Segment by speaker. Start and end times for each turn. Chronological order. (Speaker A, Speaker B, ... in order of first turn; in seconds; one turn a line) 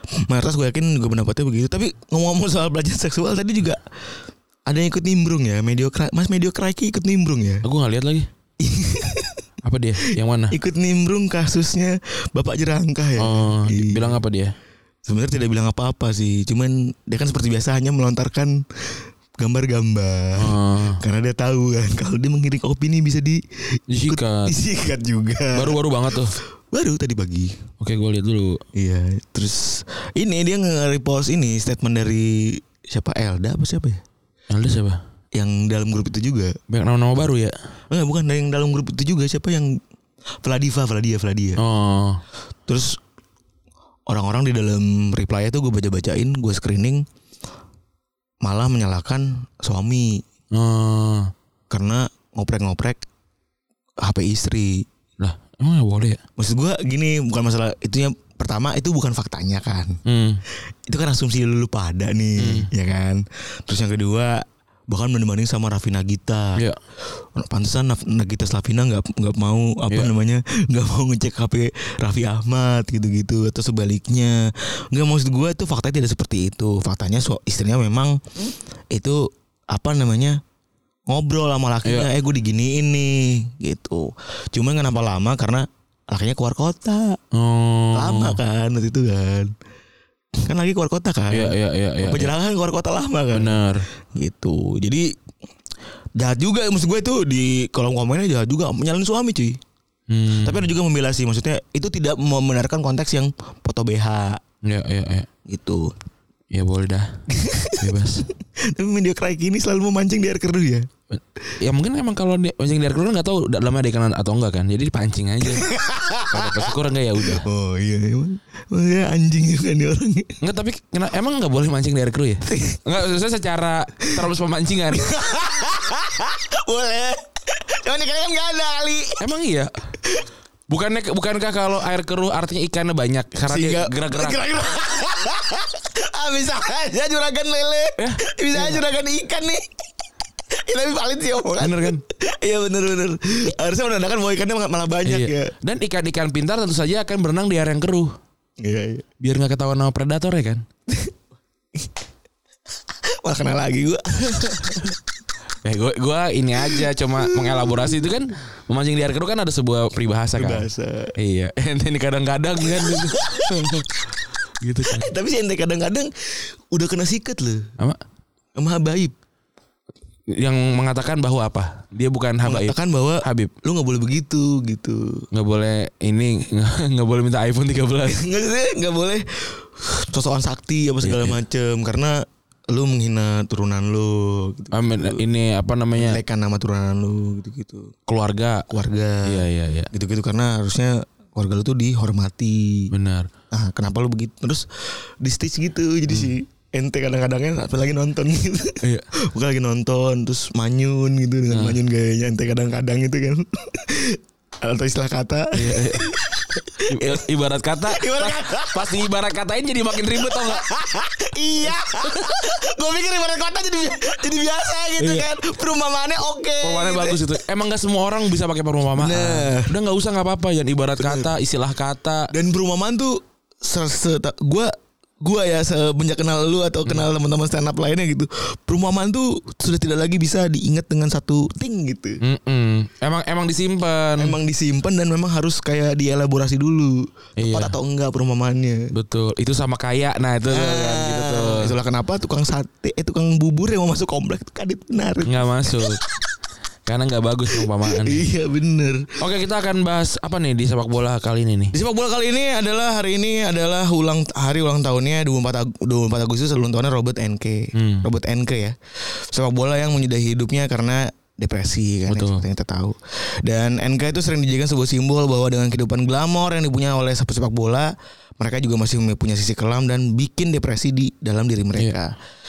Speaker A: 0.2-3.8
Speaker A: 4.7-7.7
Speaker B: 7.6-8.3
Speaker A: 8.6-9.4
Speaker B: 9.6-10.5
Speaker A: 10.0-14.2
Speaker B: 13.2-14.5
Speaker A: 15.1-27.6
Speaker B: 20.4-21.0
Speaker B: 23.9-24.5
Speaker B: 25.5-26.3
Speaker B: 27.8-28.6
Speaker A: 28.7-34.0
Speaker B: 34.5-35.0
Speaker A: 35.3-36.6
Speaker B: 36.7-37.5
Speaker A: 37.9-39.8
Speaker A: 40.4-41.6
Speaker B: 41.6-42.2
Speaker A: 42.7-43.0
Speaker A: 44.1-47.0
Speaker A: 48.4-50.2
Speaker B: 50.5-51.3
Speaker A: 51.7-53.0
Speaker A: 54.0-54.9
Speaker B: 55.2-56.2
Speaker A: 56.4-60.0
Speaker B: 60.0-60.4
Speaker A: 60.9-66.6
Speaker B: 62.4-62.7
Speaker A: 67.2-78.2
Speaker A: 78.9-80.4
Speaker A: 81.1-87.2
Speaker B: 81.8-82.1
Speaker B: 87.3-88.4
Speaker A: 87.9-89.5
Speaker A: 90.4-93.6
Speaker B: 91.3-92.3
Speaker B: 93.3-93.8
Speaker A: 94.1-95.1
Speaker A: 96.2-99.6
Speaker B: 100.1-100.7
Speaker A: 100.4-104.4
Speaker B: 104.6-105.3
Speaker A: 105.5-105.9
Speaker B: 106.5-107.2
Speaker A: 107.3-107.9
Speaker B: 107.8-108.2
Speaker A: 108.4-110.9
Speaker B: 111.1-115.7
Speaker A: 115.6-120.4
Speaker B: 116.3-117.4
Speaker B: 120.4-125.1
Speaker A: 122.5-122.8
Speaker A: 124.9-129.2
Speaker B: 129.2-129.7
Speaker B: 130.7-134.4
Speaker A: 133.4-139.6
Speaker B: 138.0-138.8
Speaker A: 140.5-145.5
Speaker B: 141.6-142.0
Speaker B: 145.0-148.1
Speaker A: 148.6-149.0
Speaker B: 149.2-150.6
Speaker A: 153.2-154.9
Speaker B: 155.6-163.8
Speaker A: 156.6-158.0
Speaker A: 160.3-161.1
Speaker A: 162.7-164.0
Speaker B: 164.6-165.1
Speaker A: 164.8-167.7
Speaker A: 168.6-169.1
Speaker B: 170.3-173.5
Speaker A: 172.4-175.2
Speaker B: 175.3-178.2
Speaker A: 178.1-185.2
Speaker B: 181.0-181.4
Speaker B: 184.7-186.2
Speaker A: 185.9-187.9
Speaker B: 188.1-188.6
Speaker A: 188.7-192.9
Speaker B: 189.2-189.9
Speaker B: 192.9-193.3
Speaker A: 193.5-207.2
Speaker B: 198.8-199.1
Speaker B: 201.5-201.8
Speaker B: 205.5-206.1
Speaker B: 206.9-210.7
Speaker A: 207.9-209.0
Speaker A: 210.3-217.2
Speaker B: 215.0-215.3
Speaker B: 216.6-222.3
Speaker A: 219.0-219.7
Speaker A: 221.0-221.3
Speaker A: 222.3-232.2
Speaker B: 232.2-234.4
Speaker A: 234.2-238.9
Speaker B: 237.4-237.8
Speaker B: 238.9-241.7
Speaker A: 240.5-246.1
Speaker B: 245.2-246.0
Speaker B: 246.8-248.2
Speaker A: 247.6-249.1
Speaker B: 249.2-251.7
Speaker A: 251.7-272.1
Speaker B: 257.7-258.1
Speaker B: 262.1-262.4